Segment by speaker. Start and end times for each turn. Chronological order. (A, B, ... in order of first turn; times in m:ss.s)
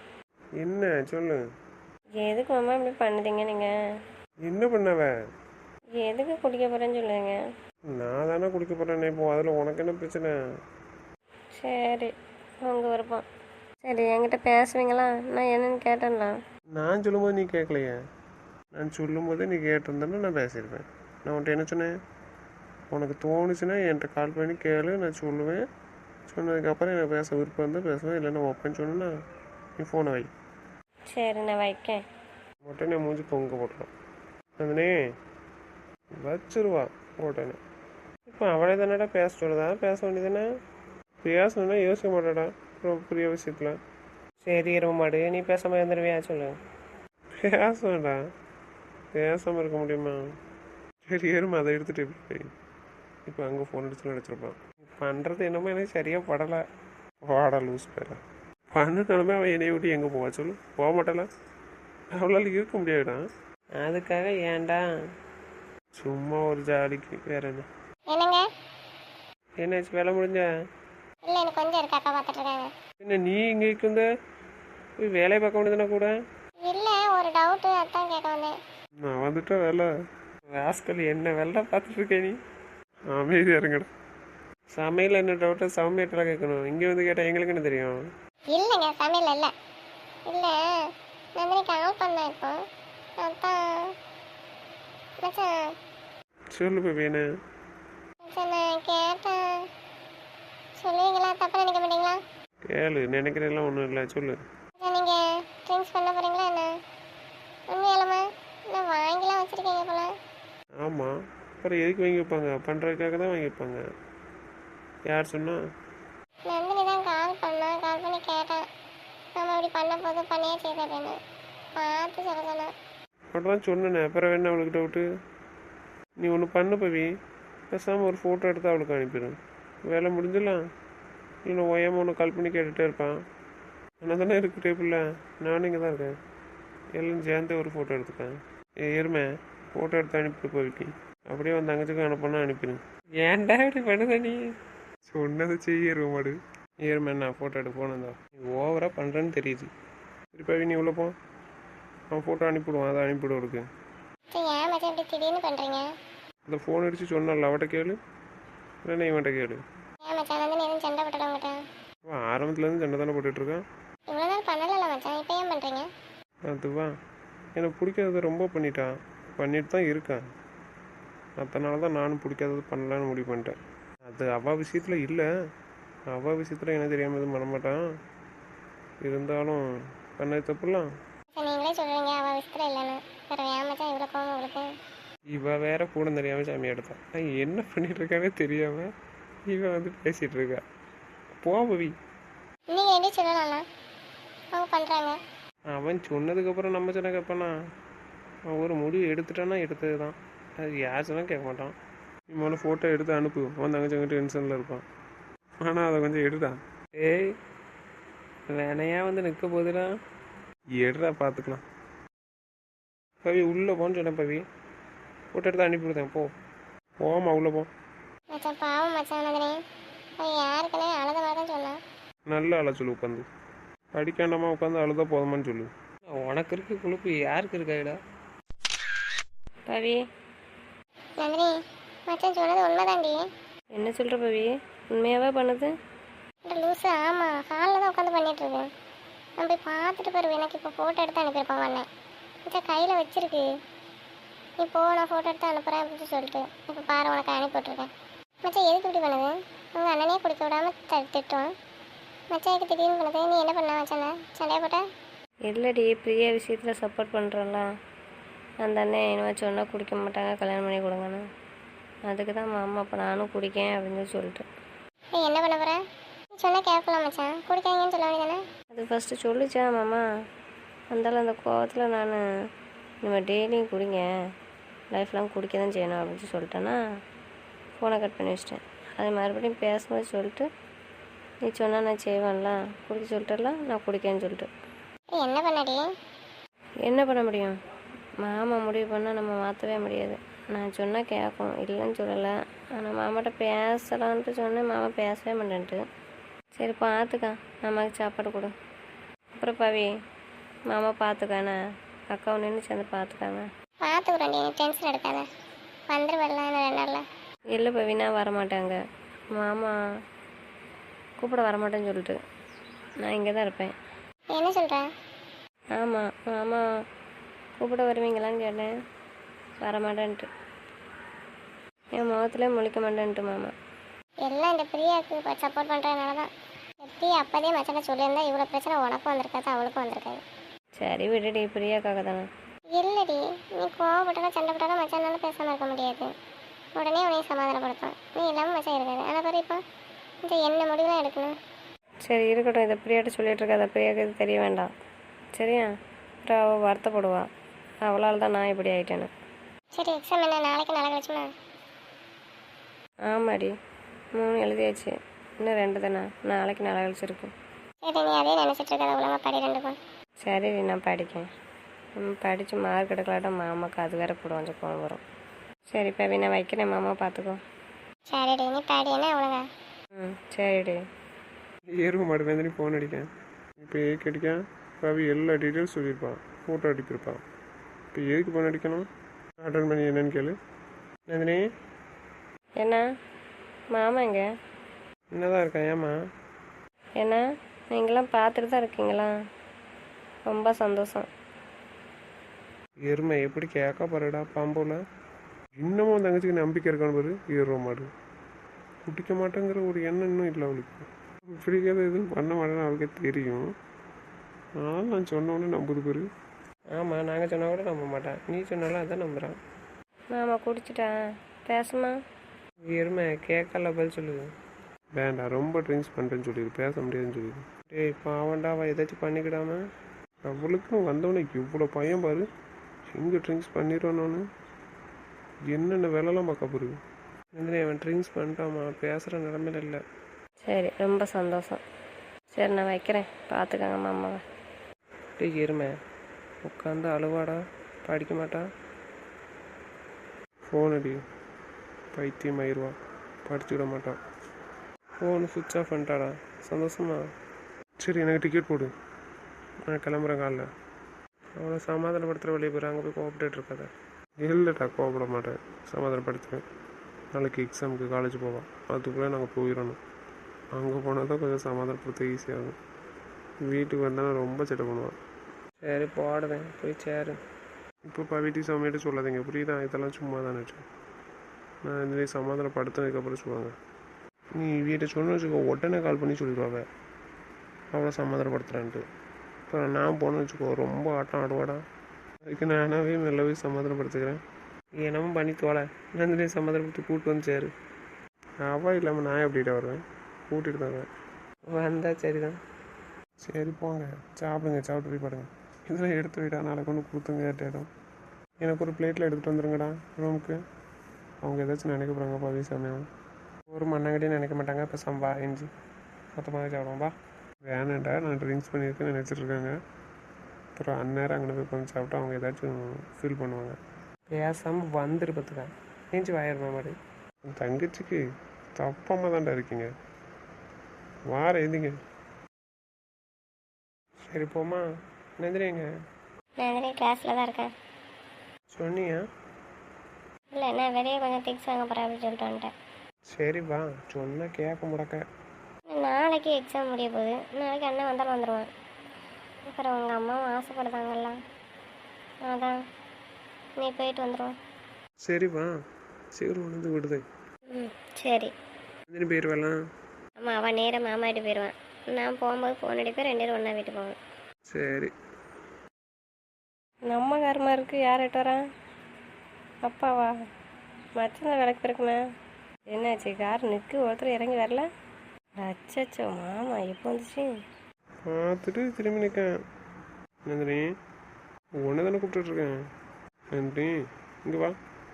0:00.6-0:01.4 A
0:02.2-0:03.7 B
0:04.5-0:05.1 A
0:06.0-0:07.4 B
0:07.9-0:10.3 A
0:11.6-0:12.1 B
0:12.6-0:13.3 B
0:13.8-0:16.3 B
0:16.8-0:18.0 A
0:18.7-0:21.9 A
0:22.9-0:25.6 A
0:26.3-0:29.1 A
0:29.8-0:30.3 A
0:31.1-0:32.0 B
0:32.6-0:33.9 A
0:34.6-0:35.0 A
0:36.2-0:37.6 A
0:38.3-0:40.5 A
0:41.2-0:43.8 A
0:44.4-0:46.6 A
0:47.3-0:48.2 A
0:49.1-0:50.2 A
0:51.0-0:52.5 A
0:53.3-0:56.6 A
0:57.2-0:58.2 A
0:58.7-1:01.3 A
1:02.2-1:03.2 A
1:03.8-1:04.8 A
1:06.0-1:07.7 A
1:08.1-1:08.4 C
1:09.6-1:10.5 A
1:11.3-1:12.7 C
1:13.0-1:14.1 A
1:15.0-1:16.1 A
1:16.6-1:18.5 C
1:19.0-1:19.9 A
1:20.5-1:22.4 A
1:23.1-1:23.9 A
1:24.7-1:28.0 A
1:28.5-1:29.5 C
1:30.3-1:30.6 C
1:31.4-1:32.6 C
1:33.2-1:34.0 C
1:35.2-1:35.7 C
1:36.5-1:37.2 A
1:38.2-1:39.6 C
1:40.8-1:42.2 C
1:42.7-1:44.4 A
1:44.8-1:46.7 C
1:47.7-1:50.1 C
1:50.8-1:53.8 A
1:55.1-1:55.6 A
1:56.5-1:58.6 C
1:59.4-2:01.2 C
2:01.8-2:02.7 C
2:03.3-2:05.1 A
2:06.2-2:07.1 A
2:07.7-2:10.6 A
2:11.5-2:13.2 A
2:14.0-2:16.2 A
2:17.0-2:24.4 A
2:25.1-2:29.7 A
2:30.3-2:31.1 A
2:32.1-2:33.6 A
2:34.3-2:35.9 C
2:36.5-2:38.0 A
2:38.8-2:39.6 A
2:40.0-2:41.6 C
2:42.1-2:43.6 A
2:44.1-2:45.9 C
2:46.5-2:46.9 A
2:47.6-2:50.2 A
2:51.4-2:55.3 A
2:56.1-2:57.8 A
2:59.0-2:59.6 A
3:00.2-3:00.9 A
3:01.4-3:04.7 C
3:05.3-3:08.9 A
3:09.5-3:10.6 A
3:11.4-3:12.0 A
3:12.7-3:13.6 C
3:14.5-3:15.2 C
3:15.7-3:17.6 A
3:18.5-3:21.8 A
3:22.3-3:24.8 A
3:25.6-3:27.3 A
3:28.5-3:29.9 A
3:30.8-3:31.6 A
3:33.2-3:34.4 A
3:35.3-3:36.3 A
3:37.0-3:37.7 A
3:38.3-3:39.6 C
3:40.2-3:41.8 C
3:42.3-3:43.3 A
3:43.9-3:48.0 A
3:49.7-3:50.0 B
3:51.2-3:51.6 C
3:52.1-3:53.2 C
3:53.8-3:55.7 B
3:56.5-3:58.7 C
3:59.4-4:01.9 C
4:02.5-4:03.5 C
4:04.6-4:07.9 C
4:08.4-4:11.5 C
4:12.3-4:14.8 C
4:15.5-4:17.7 B
4:18.6-4:21.2 B
4:22.1-4:24.4 B
4:25.2-4:25.8 C
4:26.4-4:28.4 C
4:28.7-4:30.0 B
4:30.9-4:32.2 B
4:33.0-4:34.1 B
4:34.9-4:36.8 B
4:37.8-4:40.5 B
4:41.4-4:44.5 B
4:45.2-4:45.9 C
4:46.9-4:47.6 B
4:48.2-4:55.8 B
4:56.6-4:58.5 B
4:59.4-4:59.9 B
5:00.7-5:01.6 B
5:02.1-5:03.5 B
5:03.8-5:05.3 C
5:05.9-5:07.0 C
5:07.5-5:08.8 B
5:09.3-5:09.8 B
5:11.2-5:12.2 B
5:13.0-5:13.7 B
5:14.3-5:14.8 C
5:15.8-5:16.7 B
5:17.6-5:18.7 B
5:19.6-5:20.3 B
5:22.0-5:23.5 B
5:24.2-5:26.3 C
5:26.8-5:30.2 C
5:30.8-5:32.3 B
5:32.7-5:36.1 C
5:36.8-5:39.6 C
5:40.3-5:41.3 C
5:42.1-5:44.7 B
5:45.4-5:45.7 B
5:46.3-5:47.3 B
5:47.8-5:49.1 B
5:49.8-5:51.3 C
5:53.1-5:53.5 B
5:54.2-5:57.3 B
5:57.8-5:59.8 C
6:00.2-6:01.3 B
6:02.0-6:05.0 B
6:05.7-6:07.4 B
6:08.1-6:09.4 C
6:10.0-6:10.8 B
6:11.8-6:17.2 A
6:17.9-6:18.9 A
6:19.4-6:20.4 A
6:21.1-6:21.4 A
6:23.7-6:24.3 B
6:25.2-6:26.0 A
6:27.7-6:29.1 B
6:30.3-6:31.1 B
6:32.9-6:34.8 A
6:35.6-6:37.9 A
6:38.8-6:43.5 A
6:44.6-6:46.1 A
6:46.7-6:49.4 A
6:50.1-6:50.9 B
6:51.5-6:52.0 B
6:52.7-6:54.2 A
6:55.0-6:59.6 A
7:00.2-7:02.3 A
7:02.9-7:04.2 A
7:05.5-7:06.8 A
7:07.3-7:09.8 A
7:10.5-7:11.6 B
7:12.3-7:14.2 B
7:15.2-7:15.8 A
7:16.4-7:18.5 A
7:20.5-7:21.0 A
7:21.9-7:24.0 A
7:25.0-7:27.0 A
7:27.8-7:28.7 A
7:29.7-7:30.5 A
7:31.4-7:36.4 A
7:37.1-7:39.8 A
7:40.6-7:42.6 A
7:43.4-7:45.0 A
7:45.6-7:47.2 A
7:47.9-7:50.6 A
7:51.6-7:53.5 A
7:54.4-7:56.7 A
7:57.7-7:58.8 A
7:59.5-8:01.6 A
8:02.3-8:04.2 A
8:04.8-8:07.5 A
8:08.4-8:10.9 A
8:11.5-8:12.4 A
8:13.2-8:17.7 A
8:18.4-8:20.4 A
8:21.2-8:22.9 A
8:23.5-8:25.5 A
8:26.2-8:26.9 A
8:27.5-8:29.6 A
8:30.6-8:33.6 A
8:34.1-8:38.0 A
8:38.6-8:39.7 A
8:41.1-8:41.7 A
8:44.1-8:44.6 A
8:45.2-8:45.7 A
8:46.4-8:47.5 C
8:46.7-8:47.2 B
8:48.5-8:49.0 A
8:50.4-8:52.4 B
8:53.1-8:55.1 A
8:55.7-8:58.5 B
8:59.5-9:01.1 B
9:00.1-9:01.1 C
9:02.3-9:02.5 C
9:03.6-9:04.3 B
9:05.0-9:05.5 A
9:06.2-9:07.0 A
9:07.6-9:08.3 B
9:08.9-9:09.6 A
9:10.2-9:14.0 B
9:14.5-9:14.9 A
9:16.9-9:18.4 B
9:19.6-9:20.1 B
9:21.0-9:22.0 B
9:22.7-9:24.7 B
9:25.4-9:27.3 B
9:28.1-9:29.3 A
9:30.3-9:30.7 A
9:31.6-9:32.6 A
9:33.3-9:34.6 A